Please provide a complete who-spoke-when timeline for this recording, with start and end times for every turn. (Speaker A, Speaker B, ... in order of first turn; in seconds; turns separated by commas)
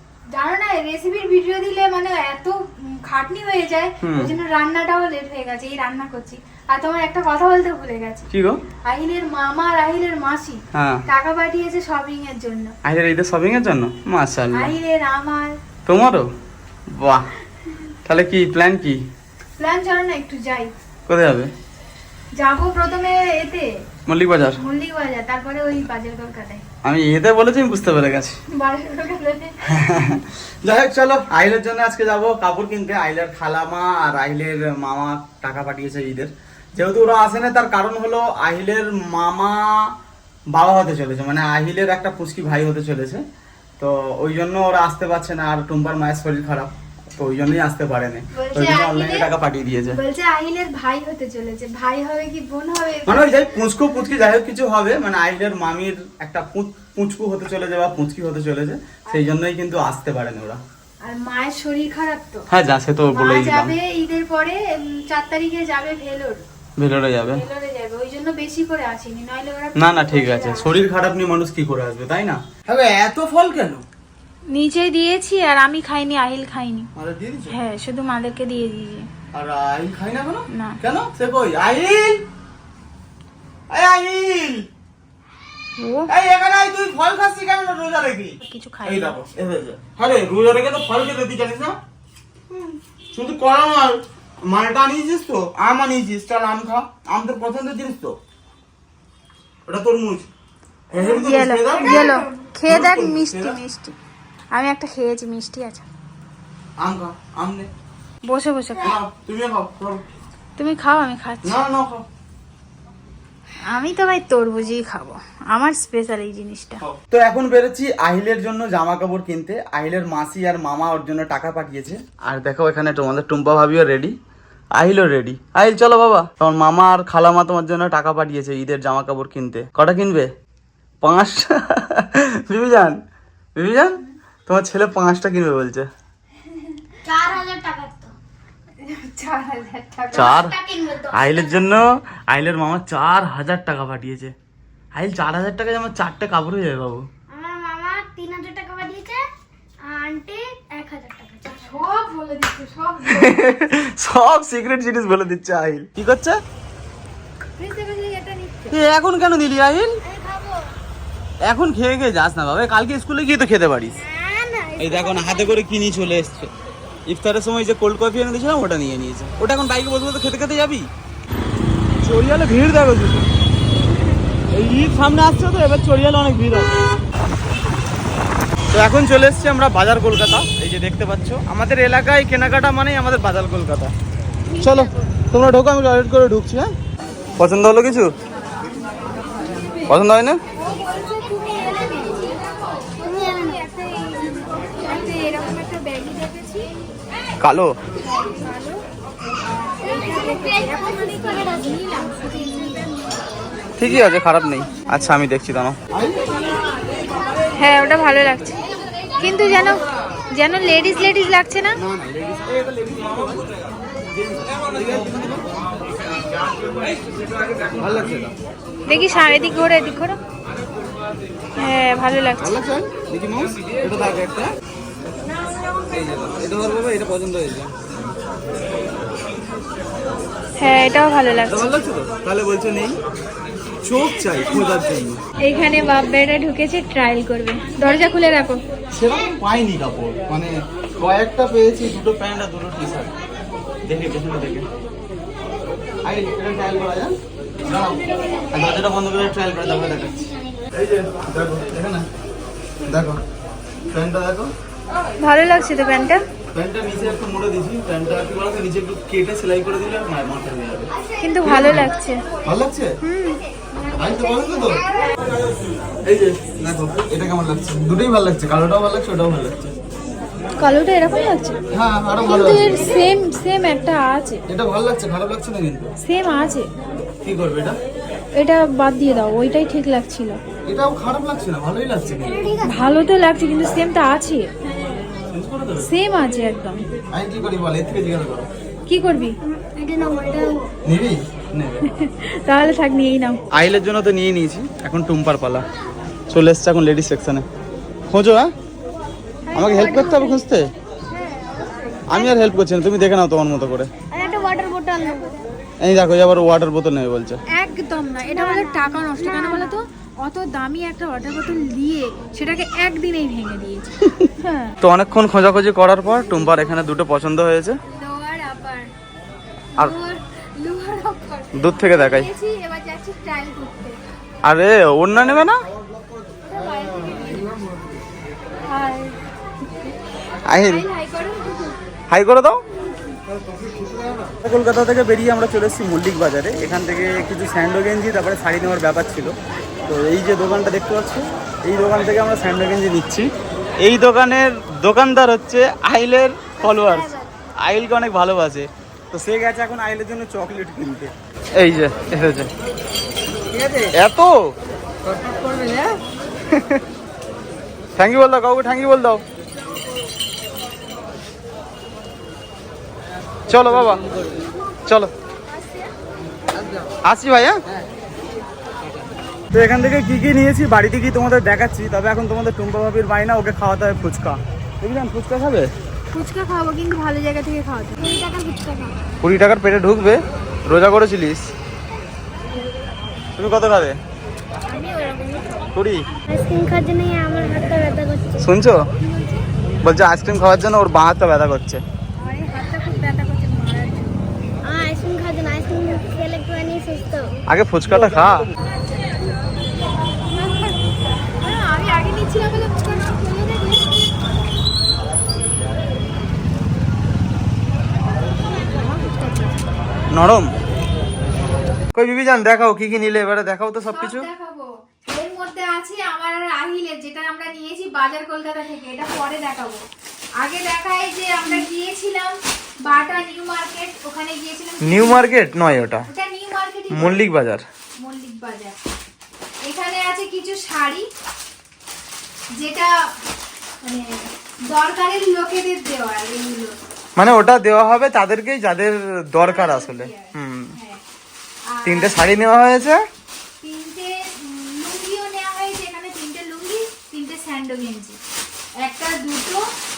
Speaker A: 0.3-8.2, Speaker B: 4.0-4.3, Speaker B: 8.3-8.6, Speaker A: 8.8-12.7, Speaker B: 10.7-11.0, Speaker B: 12.8-14.7, Speaker A: 14.5-15.6, Speaker B: 15.8-16.2, Speaker B: 16.9-17.2, Speaker B: 18.1-19.0, Speaker A: 19.6-20.7, Speaker B: 21.1-21.5, Speaker A: 22.4-23.7, Speaker B: 24.1-24.6, Speaker A: 24.6-26.6, Speaker B: 26.8-28.4, Speaker A: 28.5-29.6, Speaker B: 29.7-39.9, Speaker B: 40.5-43.2, Speaker B: 43.8-50.0, Speaker A: 48.3-49.3, Speaker A: 49.9-53.5, Speaker B: 53.0-60.6, Speaker A: 59.1-59.4, Speaker A: 61.0-62.5, Speaker B: 62.5-63.8, Speaker A: 63.1-66.4, Speaker B: 66.8-67.4, Speaker A: 67.3-70.8, Speaker B: 69.8-73.8, Speaker A: 74.5-76.9, Speaker B: 77.0-77.6, Speaker A: 77.5-79.1, Speaker B: 79.3-82.2, Speaker A: 80.5-80.8, Speaker B: 83.7-84.7, Speaker A: 85.8-86.1, Speaker B: 86.1-91.8, Speaker A: 88.4-89.2, Speaker B: 93.1-98.2, Speaker B: 99.7-100.2, Speaker B: 100.9-102.1, Speaker A: 101.0-103.9, Speaker C: 101.8-102.3, Speaker B: 102.7-103.6, Speaker A: 104.5-105.8, Speaker B: 106.8-107.7, Speaker A: 108.2-109.0, Speaker B: 108.8-110.0, Speaker A: 110.6-111.6, Speaker B: 111.4-112.0, Speaker A: 113.7-116.8, Speaker B: 116.8-124.1, Speaker B: 124.7-130.3, Speaker B: 131.0-133.0, Speaker B: 133.5-135.9, Speaker C: 137.0-138.1, Speaker A: 138.8-140.4, Speaker C: 140.1-141.6, Speaker B: 140.1-140.5, Speaker B: 141.1-144.3, Speaker B: 144.9-147.0, Speaker C: 147.3-149.2, Speaker C: 149.8-151.8, Speaker A: 151.4-153.5, Speaker B: 153.1-156.4, Speaker A: 157.6-158.8, Speaker B: 158.7-160.0, Speaker C: 160.0-160.8, Speaker B: 161.4-164.0, Speaker C: 164.0-165.7, Speaker B: 164.8-166.5, Speaker B: 167.1-170.9, Speaker B: 172.0-173.3, Speaker B: 174.5-176.8, Speaker B: 178.7-183.9, Speaker C: 184.4-185.1, Speaker B: 184.6-186.7, Speaker B: 187.4-188.1, Speaker B: 189.9-190.4, Speaker A: 190.5-192.4, Speaker A: 193.0-196.7, Speaker C: 193.0-193.7, Speaker B: 197.4-197.7, Speaker A: 198.0-198.8, Speaker A: 199.6-203.0, Speaker C: 199.8-202.3, Speaker B: 203.8-206.2, Speaker C: 206.4-206.7, Speaker A: 207.6-208.6, Speaker A: 209.2-209.8, Speaker A: 210.3-211.8, Speaker B: 211.8-213.5, Speaker B: 214.1-215.4, Speaker B: 217.6-218.3, Speaker A: 218.9-220.2, Speaker A: 221.6-222.6, Speaker B: 222.4-224.4, Speaker B: 226.1-227.7, Speaker A: 230.6-231.7, Speaker B: 231.5-233.0, Speaker B: 233.8-235.2, Speaker A: 235.4-238.6, Speaker B: 238.9-243.2, Speaker B: 243.8-244.7, Speaker B: 246.0-248.0, Speaker C: 247.8-248.8, Speaker B: 248.5-252.1, Speaker C: 249.7-250.7, Speaker B: 252.9-253.2, Speaker B: 253.9-254.5, Speaker A: 255.2-256.2, Speaker B: 256.5-261.9, Speaker C: 261.0-261.3, Speaker A: 261.2-262.2, Speaker B: 262.4-262.9, Speaker A: 263.0-263.4, Speaker C: 263.7-265.1, Speaker B: 263.9-264.8, Speaker B: 266.0-269.7, Speaker A: 270.6-271.6, Speaker B: 271.7-273.0, Speaker A: 272.2-274.4, Speaker B: 274.5-275.9, Speaker A: 276.0-276.7, Speaker B: 277.2-277.8, Speaker A: 278.3-280.4, Speaker B: 280.7-282.4, Speaker C: 282.2-282.9, Speaker A: 282.6-284.5, Speaker B: 285.3-285.9, Speaker A: 285.8-286.9, Speaker B: 287.1-288.5, Speaker A: 288.9-289.3, Speaker C: 289.5-290.7, Speaker B: 290.9-291.9, Speaker A: 291.8-293.4, Speaker B: 293.5-295.7, Speaker B: 296.3-297.4, Speaker B: 298.1-298.5, Speaker A: 299.4-300.2, Speaker B: 299.5-300.7, Speaker C: 299.6-300.4, Speaker C: 301.1-302.5, Speaker B: 302.1-303.9, Speaker C: 304.1-305.4, Speaker B: 305.8-307.4, Speaker A: 307.5-314.7, Speaker C: 308.2-309.8, Speaker B: 314.8-317.8, Speaker A: 317.9-318.9, Speaker A: 319.7-324.0, Speaker B: 321.5-322.3, Speaker B: 324.4-325.6, Speaker A: 326.4-327.6, Speaker A: 328.6-329.2, Speaker B: 330.4-330.9, Speaker A: 330.5-331.8, Speaker B: 332.1-332.6, Speaker B: 334.3-339.3, Speaker B: 339.9-343.3, Speaker B: 343.8-352.5, Speaker C: 346.9-347.3, Speaker B: 353.9-354.3, Speaker A: 355.2-356.0, Speaker B: 356.5-356.8, Speaker B: 358.0-359.2, Speaker B: 363.5-364.0, Speaker B: 367.1-367.6, Speaker B: 369.5-375.7, Speaker A: 376.1-378.1, Speaker C: 378.0-379.0, Speaker B: 379.2-381.5, Speaker B: 383.4-384.0, Speaker C: 384.6-385.8, Speaker B: 385.7-386.1, Speaker C: 386.3-388.5, Speaker B: 388.4-388.8, Speaker A: 389.0-389.4, Speaker B: 389.8-391.8, Speaker A: 392.2-394.2, Speaker C: 394.6-397.4, Speaker B: 397.5-398.5, Speaker A: 400.3-400.8, Speaker A: 401.3-404.1, Speaker A: 408.6-409.6, Speaker B: 410.1-410.5, Speaker B: 411.9-414.3, Speaker A: 413.8-419.8, Speaker A: 420.4-422.3, Speaker A: 422.8-425.3, Speaker B: 424.8-426.1, Speaker A: 426.1-427.3, Speaker B: 426.9-427.6, Speaker A: 428.0-428.8, Speaker A: 429.6-431.1, Speaker A: 432.6-432.9, Speaker A: 433.8-436.8, Speaker B: 437.2-440.7, Speaker A: 439.4-441.0, Speaker A: 441.6-442.4, Speaker B: 441.8-443.0, Speaker A: 443.6-448.2, Speaker A: 448.8-449.6